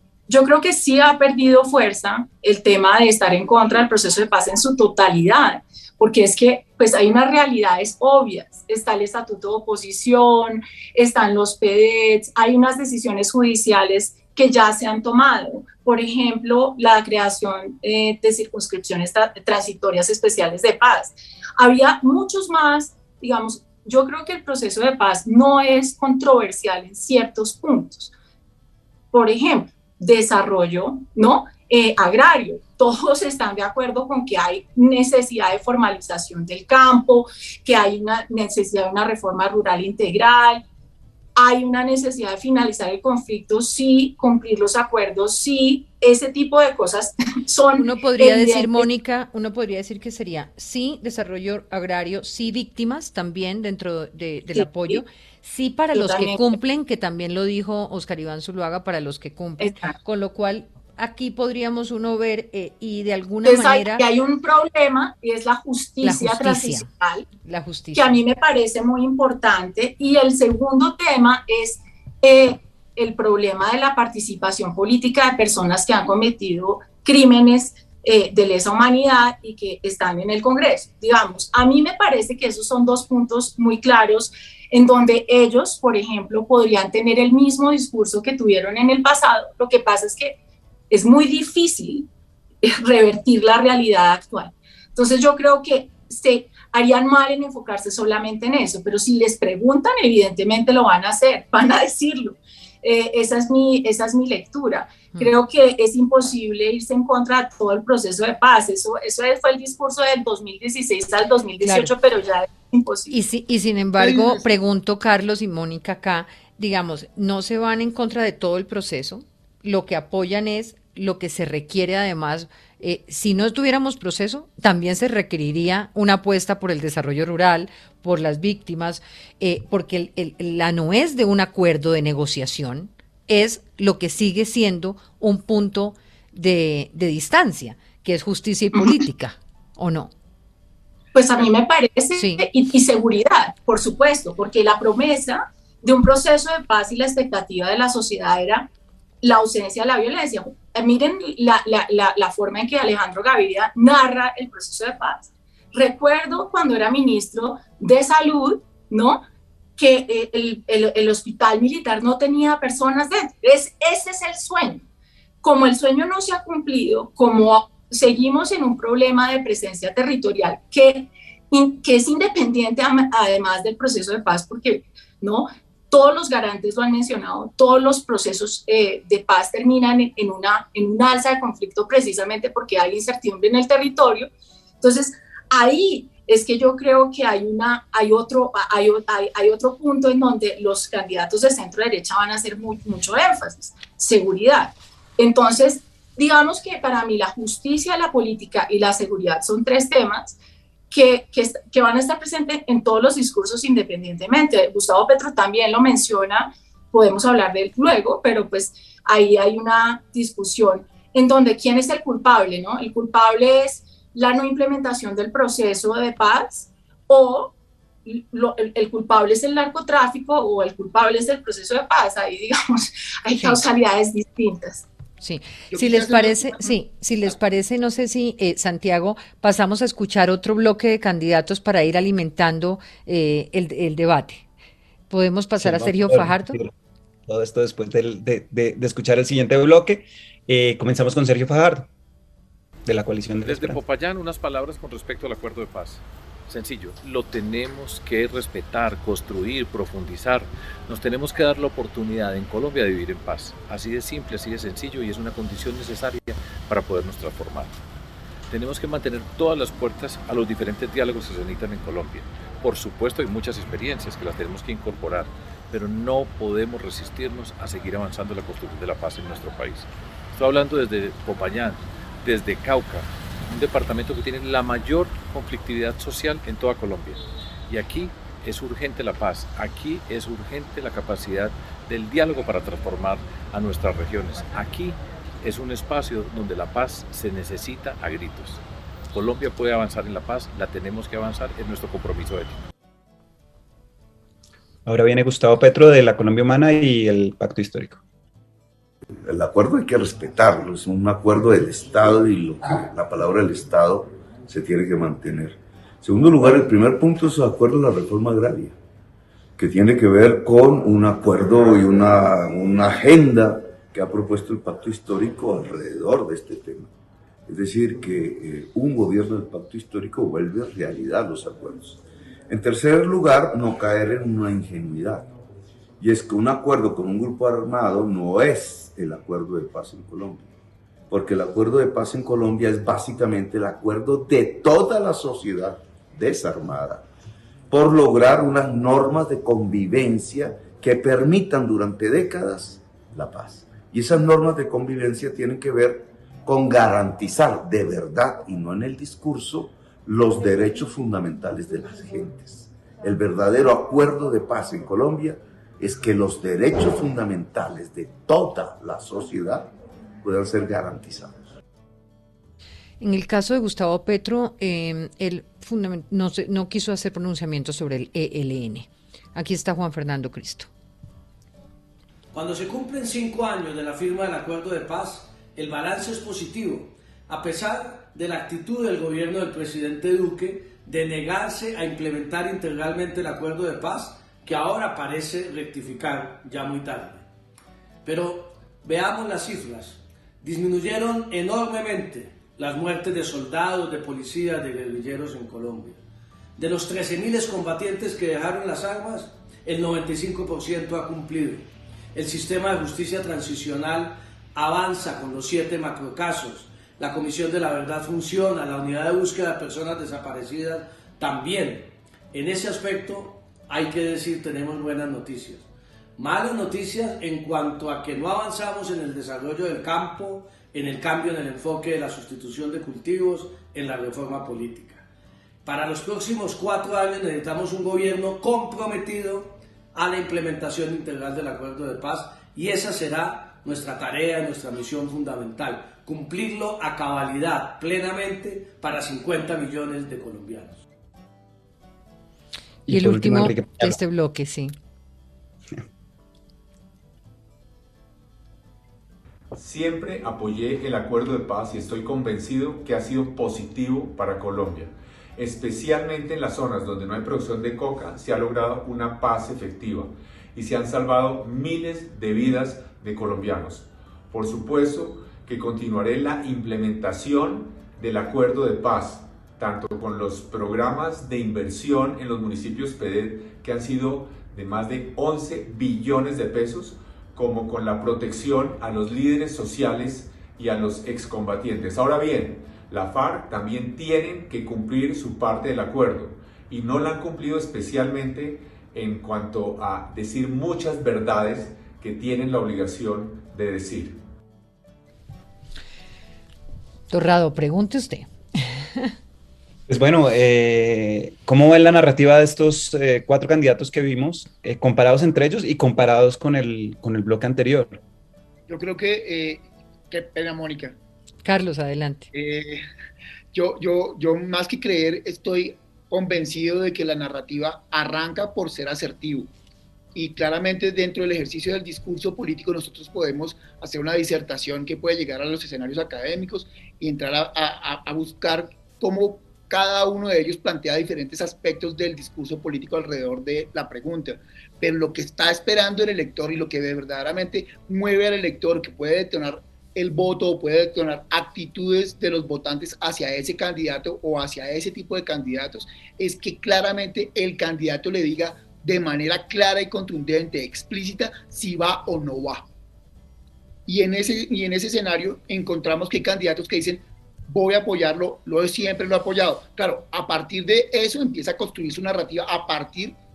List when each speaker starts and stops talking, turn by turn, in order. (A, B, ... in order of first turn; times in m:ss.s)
0:00.3-0:28.1 A
0:29.1-0:40.6 A
0:41.4-0:48.9 A
0:47.8-1:04.0 B
0:54.5-0:55.0 A
0:55.9-0:56.6 A
0:59.6-0:59.9 A
1:03.4-1:07.3 A
1:06.0-1:06.9 B
1:07.4-1:08.2 B
1:07.9-1:30.4 A
1:30.9-1:32.1 A
1:32.6-1:53.2 A
1:51.6-1:51.9 B
1:53.1-2:20.1 B
1:54.0-1:54.5 C
2:21.1-2:28.7 A
2:22.2-2:22.5 B
2:29.2-2:39.2 A
2:39.8-2:44.8 A
2:45.4-3:04.3 A
3:04.8-3:20.4 A
3:20.9-3:44.9 A
3:43.4-3:43.6 B
3:45.2-3:54.5 B
3:45.7-3:46.7 C
3:55.1-3:56.6 B
3:55.6-3:56.7 D
3:57.3-4:01.9 D
4:02.8-4:03.8 D
4:03.4-4:17.8 E
4:18.5-4:52.6 E
4:54.8-4:58.0 D
4:59.2-5:08.8 F
5:09.6-5:16.9 F
5:17.5-5:25.3 F
5:26.0-5:30.5 F
5:31.1-5:37.0 F
5:37.7-6:01.5 F
6:03.0-6:10.7 B
6:12.3-6:27.2 G
6:28.0-6:36.0 G
6:36.6-7:05.0 G
7:05.6-7:20.8 G
7:22.9-7:24.0 D
7:22.9-7:24.7 B
7:29.5-8:14.2 H
8:17.1-8:19.1 B
8:19.9-8:28.0 D
8:28.7-8:31.0 C
8:31.4-8:32.3 B
8:32.3-8:32.8 C
8:33.5-8:39.5 C
8:40.1-9:12.7 C
9:13.8-9:23.2 C